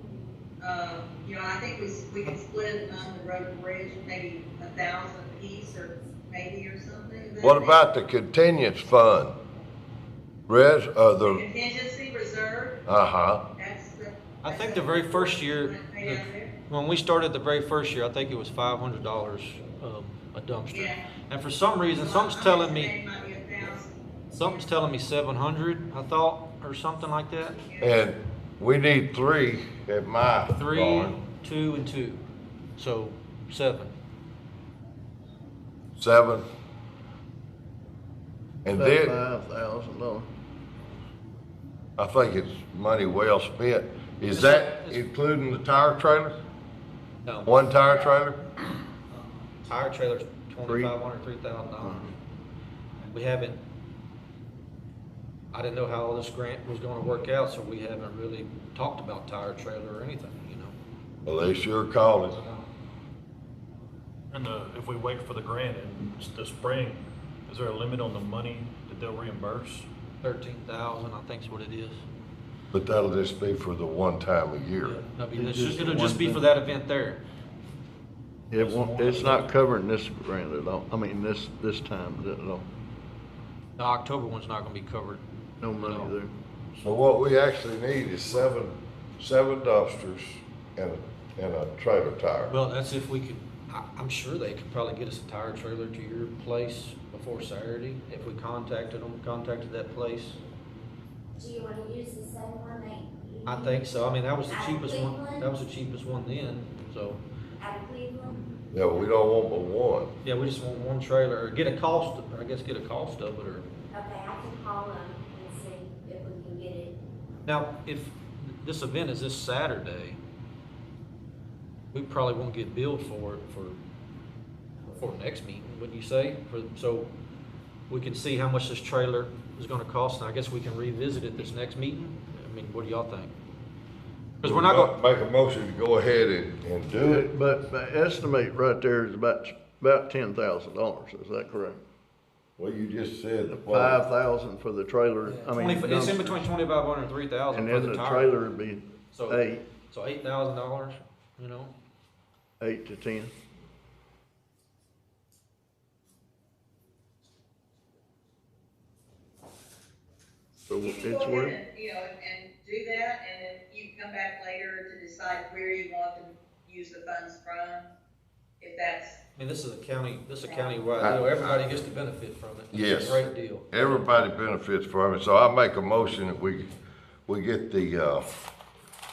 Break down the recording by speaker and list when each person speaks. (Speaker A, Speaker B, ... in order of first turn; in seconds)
Speaker A: 0.6-7.8, 11.2-12.8, 13.5-16.5, 20.7-21.1, 21.9-24.8, 27.6-28.0, 160.8-167.9, 168.6-169.2
Speaker B: 7.4-9.3, 10.5-11.4, 12.9-13.4, 27.8-31.1, 36.0-36.5, 38.6-39.2, 42.0-46.4, 47.4-48.4, 61.2-62.4, 72.7-75.0, 86.8-92.6, 108.7-110.1, 134.4-137.3, 142.6-144.0, 171.0-171.7, 172.7-176.7, 177.3-178.2
Speaker C: 14.4-22.9, 24.3-27.6, 30.5-32.2, 32.8-33.9, 44.3-45.0, 47.2-47.5, 49.7-52.1, 53.1-53.6, 55.5-60.8, 70.2-72.0, 74.8-77.2, 78.5-79.5, 83.8-85.2, 85.7-86.1, 92.5-100.4, 103.5-107.2, 110.2-113.7, 117.4-120.2, 121.9-123.8, 124.9-127.1, 127.9-133.3, 134.4-134.9, 145.2-148.3, 149.1-151.7, 169.3-174.0
Speaker D: 38.7-40.3, 50.6-50.9, 51.8-52.1, 75.3-76.4, 78.5-82.7, 85.6-86.3, 137.0-141.8, 143.5-146.4, 147.5-149.6, 152.6-153.3, 160.7-161.5
Speaker E: 64.3-69.9
Speaker F: 101.3-103.9, 104.5-105.4, 107.6-108.5, 113.9-117.0